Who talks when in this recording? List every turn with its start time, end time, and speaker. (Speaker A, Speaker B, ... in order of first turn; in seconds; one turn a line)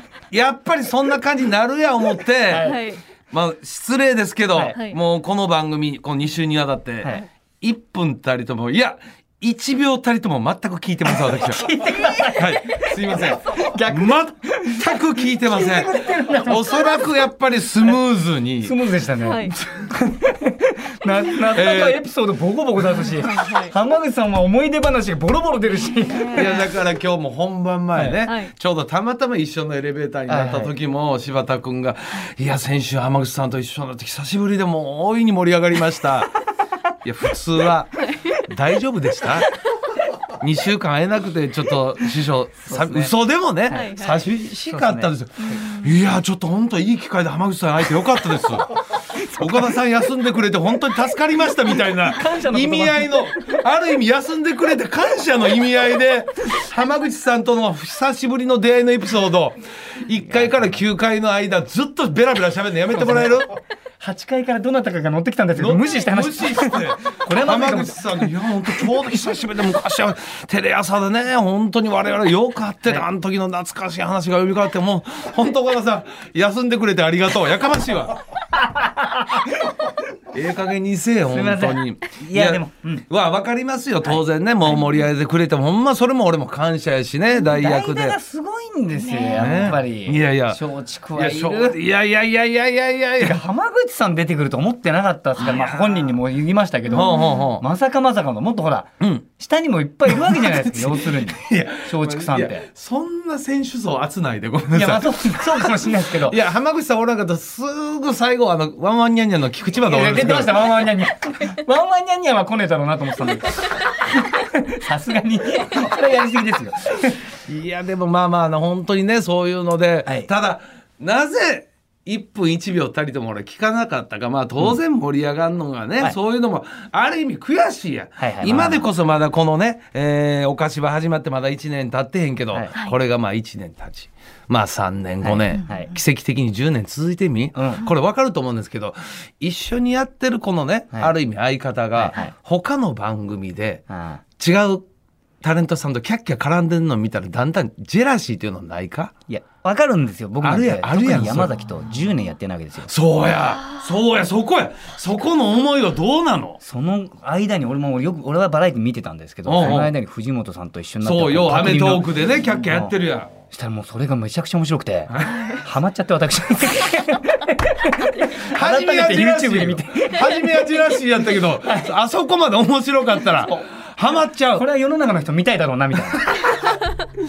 Speaker A: 0.3-2.8
Speaker B: 2.5-2.8
Speaker C: 2.6-3.0
Speaker A: 3.3-18.8
Speaker B: 11.1-17.1
Speaker B: 18.6-26.7
Speaker C: 19.2-19.6
Speaker A: 21.5-22.0
Speaker C: 23.1-23.7
Speaker C: 26.1-26.6
Speaker A: 26.3-36.3
Speaker B: 27.9-28.2
Speaker C: 28.2-28.5
Speaker B: 30.3-30.8
Speaker A: 37.0-39.5
Speaker A: 40.4-63.5
Speaker B: 42.6-43.1
Speaker B: 43.7-44.0
Speaker C: 43.7-44.3
Speaker B: 44.6-45.1
Speaker C: 45.4-45.9
Speaker B: 49.1-49.8
Speaker B: 51.7-53.5
Speaker B: 60.2-60.8
Speaker B: 62.9-63.4
Speaker B: 64.0-68.9
Speaker A: 65.5-78.2
Speaker B: 78.6-79.8
Speaker A: 80.3-88.2
Speaker B: 81.3-83.0
Speaker B: 87.5-91.8
Speaker C: 89.0-89.7
Speaker A: 89.4-90.6
Speaker A: 91.2-93.4
Speaker B: 93.2-102.7
Speaker A: 95.4-96.1
Speaker A: 96.9-97.6
Speaker C: 96.9-97.4
Speaker A: 99.0-99.3
Speaker A: 100.1-110.8
Speaker B: 104.7-106.4
Speaker B: 109.8-117.2
Speaker A: 117.5-143.8
Speaker B: 128.2-128.8
Speaker B: 135.2-135.9
Speaker B: 137.6-137.9
Speaker B: 141.9-142.3
Speaker B: 143.9-144.2
Speaker A: 144.4-144.9
Speaker A: 145.4-149.1
Speaker B: 149.3-152.9
Speaker A: 150.4-151.6
Speaker A: 152.9-156.6
Speaker B: 156.6-162.1
Speaker A: 159.5-159.9
Speaker A: 161.0-163.3
Speaker B: 162.6-162.9
Speaker B: 163.5-170.5
Speaker C: 165.3-165.6
Speaker A: 168.4-174.7
Speaker B: 171.6-171.9
Speaker B: 174.6-176.8